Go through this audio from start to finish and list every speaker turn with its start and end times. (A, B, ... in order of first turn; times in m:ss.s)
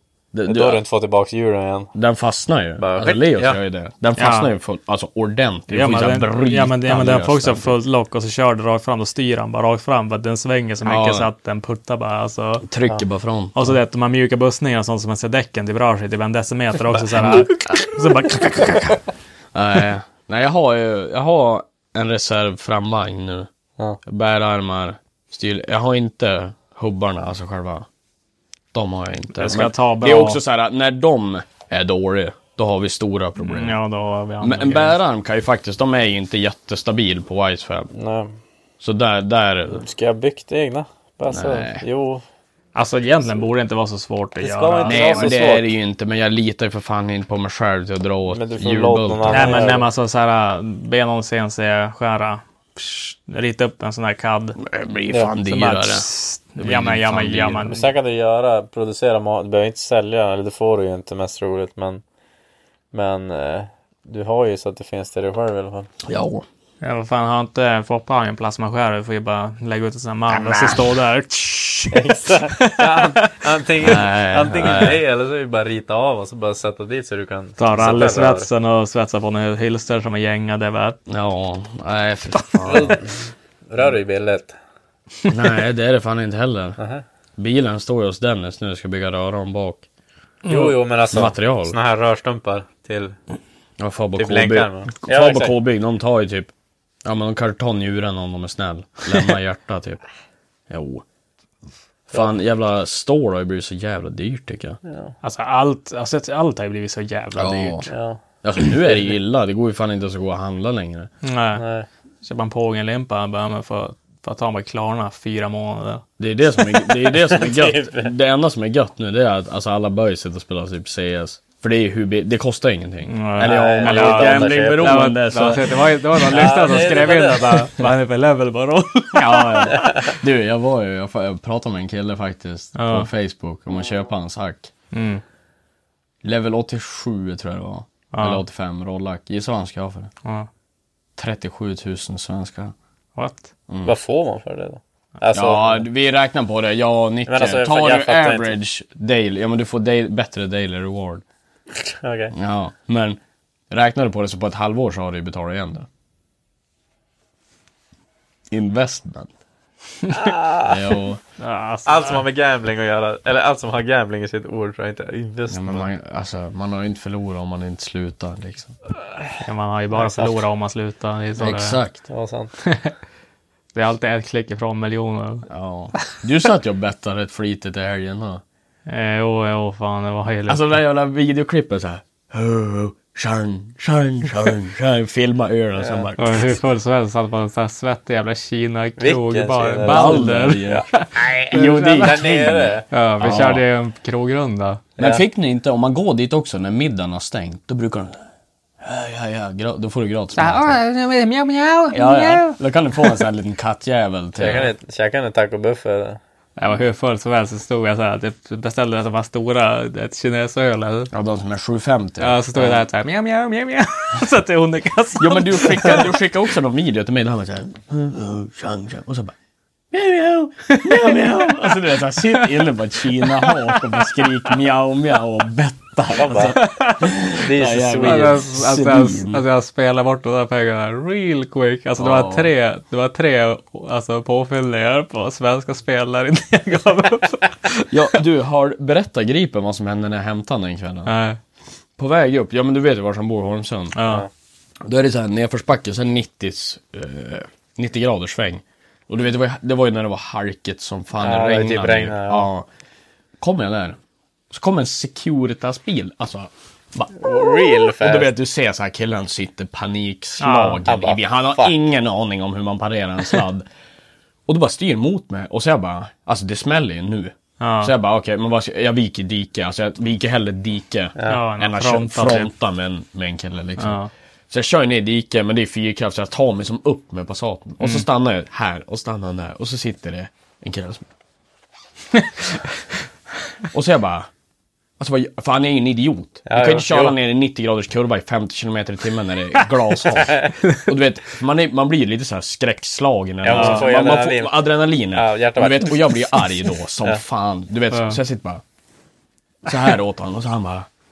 0:00.3-0:00.8 A
0:00.5-0:01.9 B
0:01.9-0:07.7 A
0:02.8-0:03.6 B
0:04.2-0:04.5 C
0:05.7-0:12.7 C
0:10.8-0:11.3 A
0:12.6-0:13.7 A
0:13.6-0:18.9 C
0:17.1-0:19.0 A
0:19.5-0:23.5 A
0:24.0-0:27.9 A
0:28.7-0:33.8 A
0:29.3-0:30.4 C
0:33.4-0:35.0 C
0:34.4-0:37.9 A
0:37.9-0:38.3 B
0:38.8-0:39.9 A
0:39.7-0:42.2 B
0:41.3-0:41.8 A
0:42.8-0:45.4 C
0:44.4-0:45.7 B
0:44.9-0:49.7 A
0:48.3-0:49.9 B
0:49.3-0:54.6 C
0:54.6-0:57.7 A
0:55.4-0:57.9 C
0:57.7-1:02.0 B
1:02.9-1:05.9 B
1:06.0-1:06.5 A
1:06.8-1:13.4 C
1:10.3-1:11.0 A
1:11.9-1:18.5 B
1:13.8-1:15.0 A
1:17.6-1:21.0 C
1:21.1-1:23.0 A
1:22.6-1:24.6 B
1:25.3-1:26.8 A
1:26.8-1:27.0 B
1:27.4-1:29.9 A
1:30.4-1:30.8 C
1:30.5-1:33.2 B
1:31.1-1:31.8 A
1:33.8-1:36.5 A
1:34.2-1:35.6 B
1:37.0-1:40.0 A
1:40.7-1:41.0 A
1:42.1-1:44.8 A
1:44.8-1:45.1 B
1:45.2-1:47.9 C
1:47.4-1:47.9 A
1:47.9-1:48.2 B
1:48.4-1:51.1 A
1:51.2-1:51.6 C
1:51.6-1:51.9 B
1:52.2-1:56.0 C
1:56.2-2:07.9 A
1:57.0-1:58.1 B
2:03.1-2:10.1 C
2:03.4-2:05.1 B
2:06.3-2:07.7 B
2:09.1-2:14.7 A
2:12.8-2:13.1 C
2:14.9-2:15.2 C
2:16.2-2:20.1 A
2:18.1-2:18.4 C
2:21.2-2:22.8 A
2:23.2-2:23.5 C
2:23.7-2:24.0 A
2:23.8-2:25.9 B
2:25.3-2:31.2 A
2:27.3-2:28.6 B
2:31.8-2:32.3 B
2:32.3-2:33.2 A
2:33.7-2:35.9 A
2:38.5-2:39.3 A
2:40.1-2:40.8 B
2:40.6-2:41.2 A
2:41.4-2:42.2 C
2:41.9-2:45.9 B
2:45.5-2:48.8 A
2:49.4-2:51.8 C
2:50.2-2:50.4 B
2:51.4-2:52.0 A
2:52.1-2:52.5 B
2:52.7-2:52.9 C
2:53.7-2:55.5 C
2:55.5-2:58.4 A
2:58.9-3:00.7 C
3:00.5-3:06.6 A
3:05.8-3:06.1 B
3:06.2-3:12.1 C
3:09.0-3:10.9 B
3:09.9-3:13.6 A
3:11.9-3:12.9 B
3:12.9-3:14.8 C
3:15.0-3:18.2 A
3:18.8-3:20.8 A
3:20.4-3:22.6 C
3:21.9-3:24.7 A
3:24.4-3:26.2 B
3:26.6-3:31.1 C
3:31.1-3:32.7 A
3:32.2-3:36.0 C
3:35.2-3:39.4 A
3:39.9-3:49.4 A
3:40.7-3:41.7 C
3:43.2-3:44.3 C
3:46.2-3:46.6 B
3:46.5-3:47.1 C
3:47.3-3:48.4 B
3:48.0-3:58.0 C
3:52.0-3:52.5 A
3:57.9-4:01.1 A
4:01.1-4:01.4 C
4:02.0-4:04.0 A
4:04.0-4:04.3 C
4:04.8-4:12.7 A
4:11.2-4:12.5 B
4:13.4-4:14.0 A
4:14.5-4:23.7 A
4:17.2-4:18.3 B
4:20.4-4:20.8 C
4:20.9-4:21.8 B
4:24.5-4:34.0 A
4:27.6-4:27.9 C
4:31.3-4:32.5 C
4:33.8-4:34.1 C
4:34.5-4:41.0 A
4:37.8-4:38.1 C
4:43.7-4:44.3 A
4:45.0-4:58.6 A
4:46.5-4:47.2 B
4:50.2-4:50.5 B
4:53.4-4:56.3 B
4:53.5-4:53.9 C
4:57.9-4:58.2 C
4:59.7-5:00.9 A